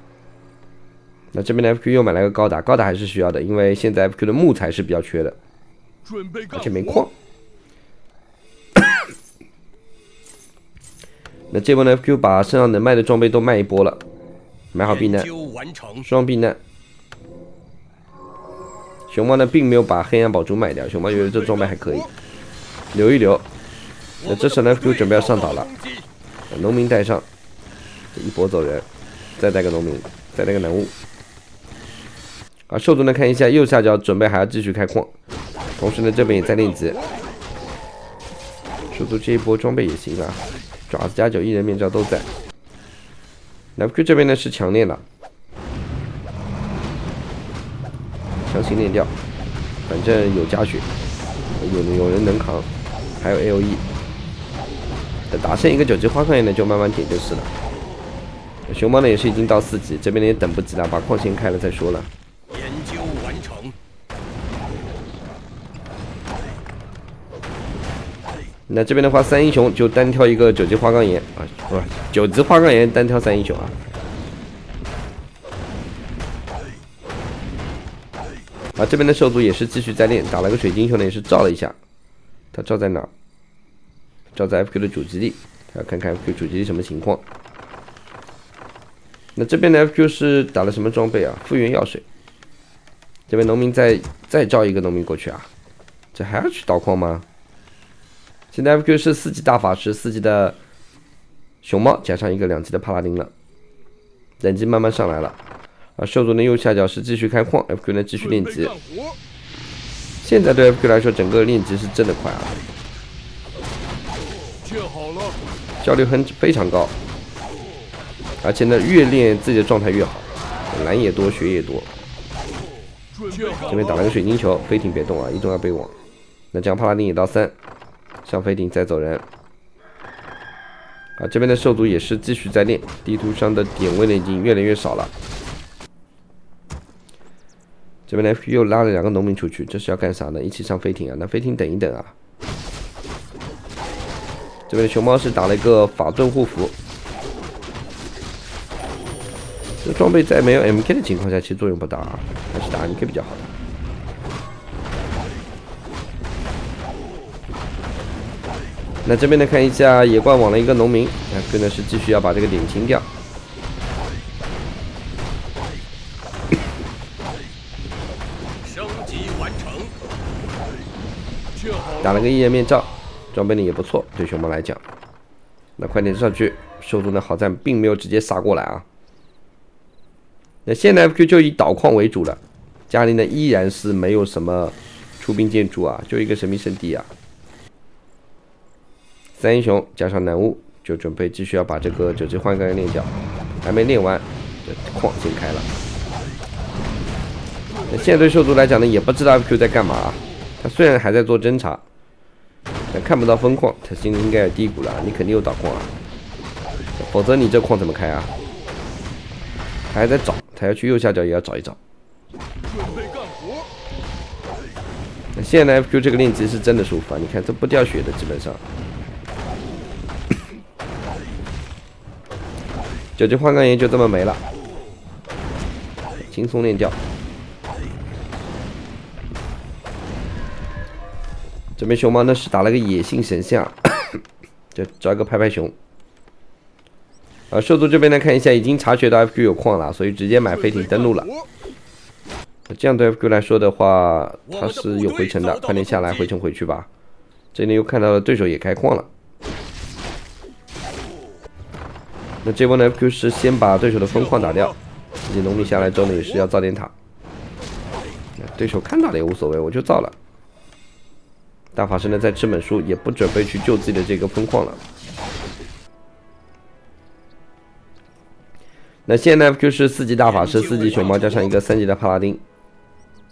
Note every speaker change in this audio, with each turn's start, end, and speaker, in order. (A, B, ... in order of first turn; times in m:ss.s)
0:01.3-0:05.4 A
0:06.5-0:07.1 A
0:11.5-0:14.0 A
0:14.7-0:15.3 A
0:14.8-0:16.1 B
0:16.0-0:16.6 A
0:19.1-0:22.1 A
0:21.3-0:21.9 B
0:22.9-0:23.4 A
0:24.2-0:26.1 B
0:24.2-0:25.7 A
0:26.5-0:27.2 A
0:28.1-0:28.8 A
0:29.4-0:30.9 A
0:32.7-0:35.1 A
0:35.8-0:37.0 A
0:38.9-0:42.2 A
0:43.8-0:45.0 A
0:48.4-0:49.1 A
0:49.9-0:50.8 A
0:51.6-0:52.7 A
0:53.2-0:53.8 A
0:55.3-0:57.5 A
0:58.7-1:02.1 A
1:02.5-1:03.7 B
1:08.7-1:13.7 A
1:18.8-1:21.8 A
1:22.5-1:23.1 A
1:24.3-1:27.2 A
1:29.4-1:32.0 A
1:33.3-1:35.5 A
1:36.1-1:37.2 A
1:38.5-1:40.6 A
1:41.6-1:43.3 A
1:44.4-1:45.4 A
1:46.0-1:48.7 A
1:50.2-1:52.5 A
1:55.8-1:56.9 A
1:58.4-2:01.9 A
2:03.5-2:05.9 A
2:06.5-2:07.5 A
2:08.2-2:09.2 A
2:11.2-2:15.1 A
2:18.1-2:22.1 A
2:24.7-2:26.7 A
2:29.8-2:33.4 A
2:39.0-2:43.0 A
2:48.6-2:49.9 B
2:52.0-2:54.8 A
2:55.8-2:58.8 A
3:00.6-3:07.1 A
3:09.4-3:15.7 A
3:17.9-3:21.8 A
3:22.9-3:25.9 A
3:27.0-3:28.3 A
3:29.9-3:31.8 A
3:35.3-3:38.6 A
3:43.2-3:44.4 A
3:46.2-3:47.0 A
3:51.8-3:54.2 A
3:54.7-3:55.7 A
3:57.5-4:01.3 A
4:02.7-4:06.9 A
4:04.5-4:06.3 B
4:07.5-4:09.1 A
4:12.4-4:16.9 A
4:18.4-4:20.1 A
4:21.7-4:24.8 A
4:29.1-4:32.4 A
4:30.2-4:31.5 B